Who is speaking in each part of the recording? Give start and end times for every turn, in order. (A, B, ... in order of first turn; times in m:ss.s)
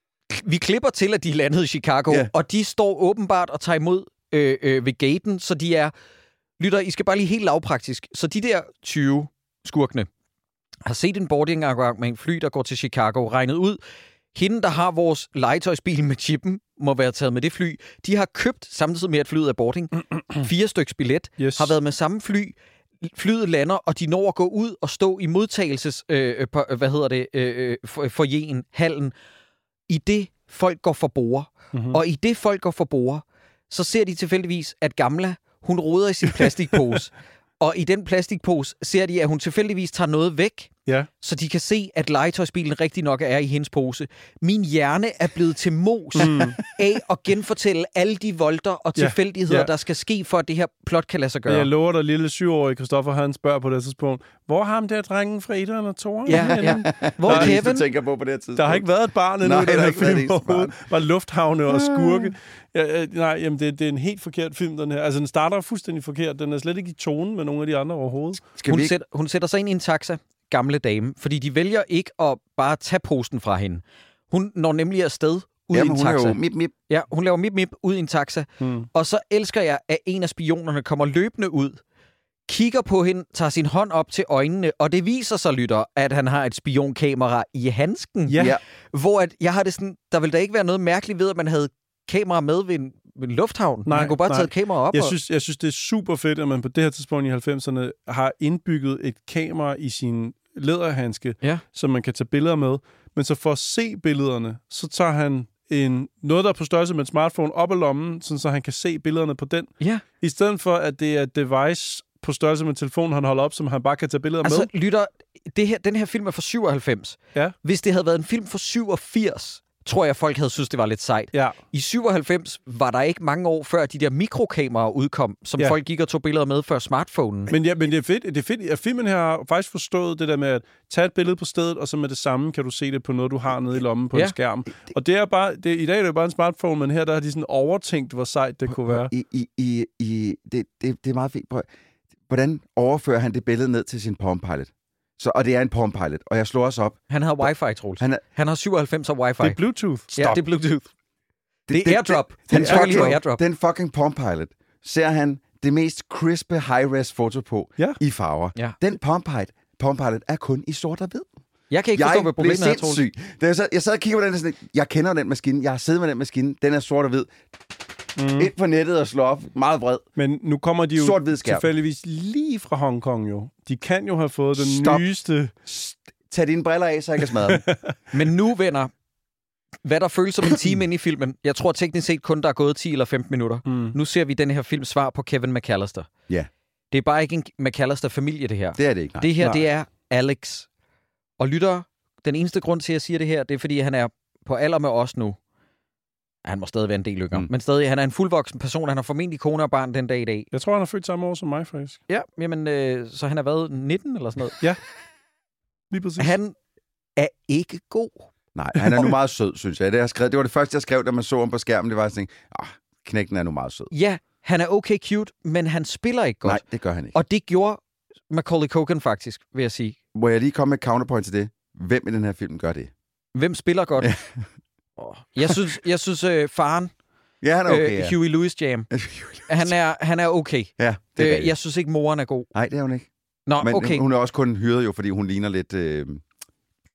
0:00.3-0:05.9 A
0:06.6-0:10.1 A
0:10.9-0:13.8 A
0:14.3-0:29.1 A
0:20.0-0:20.5 B
0:21.4-0:21.7 B
0:29.9-0:51.7 A
0:31.7-0:32.0 B
0:36.3-0:37.0 B
0:46.2-0:46.6 B
0:49.0-0:49.7 B
0:51.5-0:57.6 B
0:56.3-0:57.8 A
0:56.3-0:58.8 C
0:58.6-1:08.4 B
0:59.4-1:00.7 C
1:01.7-1:02.3 C
1:08.6-1:09.0 C
1:08.7-1:16.4 A
1:15.7-1:16.7 C
1:16.9-1:21.8 A
1:18.6-1:18.9 B
1:22.5-1:28.4 A
1:28.3-1:28.6 B
1:28.9-1:35.1 A
1:33.9-1:54.7 B
1:54.4-2:07.5 A
2:07.5-2:19.1 B
2:18.7-2:21.7 C
2:22.3-2:28.2 C
2:27.1-2:29.6 A
2:29.4-2:30.2 B
2:30.1-2:30.9 A
2:31.7-2:41.3 C
2:31.7-2:33.4 A
2:32.5-2:33.2 B
2:41.7-2:43.0 A
2:41.9-2:47.3 C
2:48.2-2:48.5 B
2:48.4-2:50.0 C
2:50.2-2:55.5 B
2:51.0-2:51.7 C
2:54.6-2:55.0 C
2:55.7-2:57.6 C
2:57.5-2:58.0 B
2:58.1-2:58.9 A
2:59.8-3:06.1 A
3:03.7-3:04.0 B
3:06.9-3:10.7 A
3:08.8-3:09.6 C
3:11.4-3:15.4 A
3:16.4-3:20.5 A
3:20.5-3:22.0 B
3:22.1-3:24.6 A
3:25.9-3:26.4 B
3:26.2-3:26.6 A
3:27.2-3:28.3 A
3:28.6-3:33.9 C
3:28.8-3:29.1 B
3:33.9-3:40.0 A
3:36.4-3:37.2 C
3:40.2-3:42.9 C
3:43.4-3:44.1 A
3:44.0-3:44.5 C
3:45.0-3:46.9 A
3:47.4-3:48.2 C
3:47.7-3:48.9 A
3:48.9-3:49.8 C
3:49.5-3:52.5 A
3:50.8-3:51.5 C
3:52.5-3:56.2 C
3:53.5-3:54.0 A